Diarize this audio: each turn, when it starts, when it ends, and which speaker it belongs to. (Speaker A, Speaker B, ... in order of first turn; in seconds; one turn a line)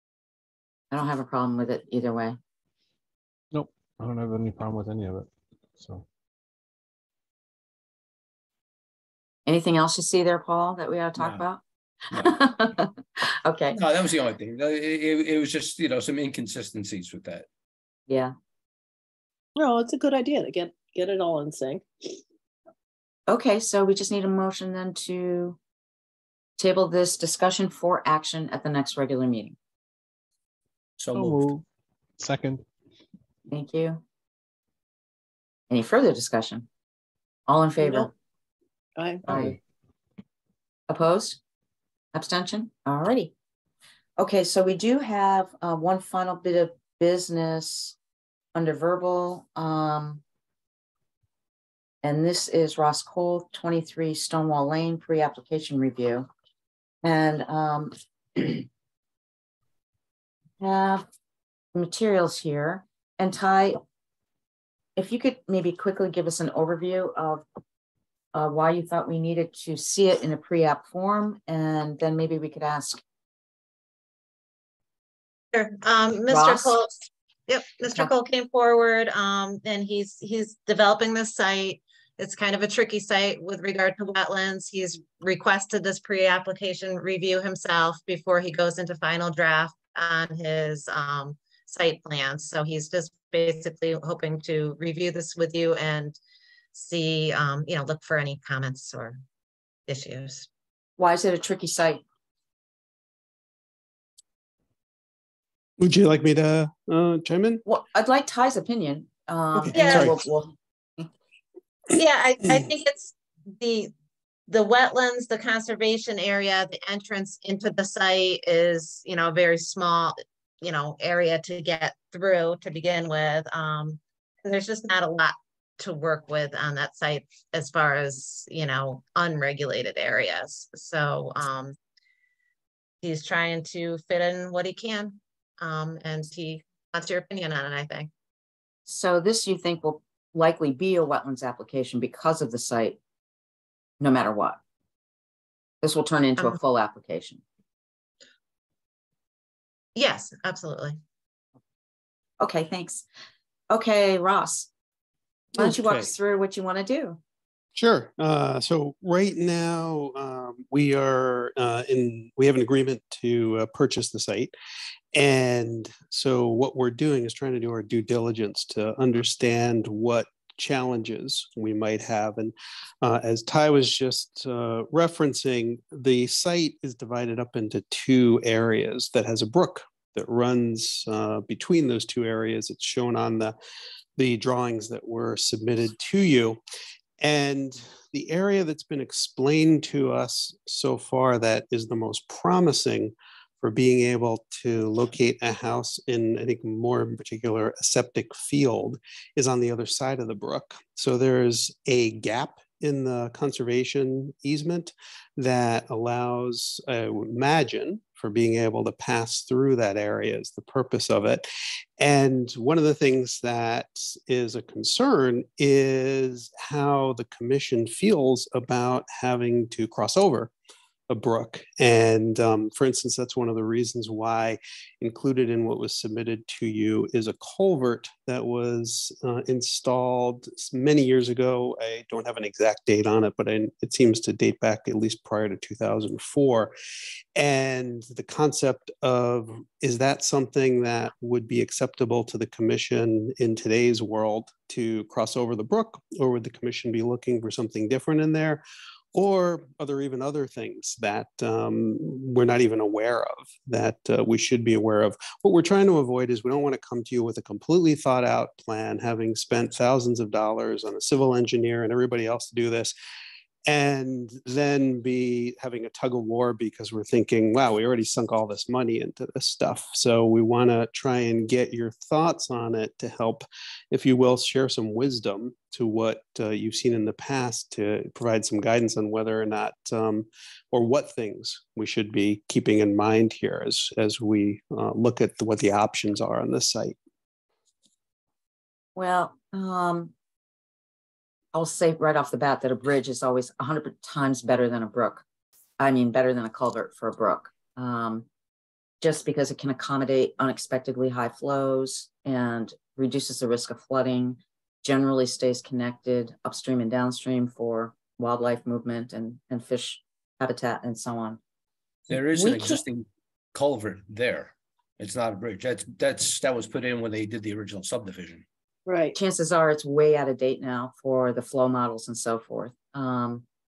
Speaker A: 0.9-2.4
Speaker B: 3.5-6.0
Speaker A: 9.5-11.6
Speaker C: 11.2-11.4
Speaker A: 12.1-13.8
Speaker C: 13.7-17.5
Speaker A: 18.1-18.3
Speaker D: 19.6-22.2
Speaker A: 23.3-25.6
Speaker A: 26.6-29.6
Speaker C: 31.0-31.5
Speaker B: 31.1-31.6
Speaker B: 32.2-32.6
Speaker A: 33.5-34.0
Speaker A: 35.7-36.7
Speaker A: 37.5-38.1
Speaker D: 37.8-38.1
Speaker D: 39.0-39.2
Speaker A: 39.3-39.6
Speaker A: 40.9-41.4
Speaker A: 42.1-43.3
Speaker A: 44.2-48.0
Speaker A: 48.5-50.2
Speaker A: 52.0-56.3
Speaker A: 57.0-58.7
Speaker A: 60.6-61.0
Speaker A: 61.7-63.8
Speaker A: 65.0-67.5
Speaker A: 68.3-73.0
Speaker E: 75.5-77.0
Speaker A: 76.3-76.8
Speaker E: 77.5-96.2
Speaker E: 96.7-99.2
Speaker E: 99.9-100.5
Speaker A: 101.0-102.0
Speaker F: 105.8-107.6
Speaker A: 107.7-111.1
Speaker F: 109.6-110.2
Speaker E: 109.7-110.1
Speaker E: 111.9-113.9
Speaker E: 114.5-131.8
Speaker E: 133.0-138.1
Speaker A: 138.9-143.0
Speaker A: 144.0-144.6
Speaker A: 145.8-147.4
Speaker E: 150.0-151.0
Speaker A: 152.4-153.1
Speaker A: 153.7-154.7
Speaker F: 155.6-156.1
Speaker A: 155.6-157.2
Speaker F: 157.8-164.5
Speaker F: 165.1-183.6
Speaker F: 184.2-186.6
Speaker F: 187.2-211.5
Speaker F: 212.0-220.5
Speaker F: 221.1-236.7
Speaker F: 237.4-248.6
Speaker F: 249.2-262.9
Speaker F: 263.7-287.0
Speaker A: 289.0-290.1
Speaker A: 291.5-295.2
Speaker A: 295.8-298.3
Speaker A: 299.0-311.4
Speaker C: 312.1-318.5
Speaker A: 312.1-312.8
Speaker D: 318.9-319.2
Speaker A: 319.1-323.4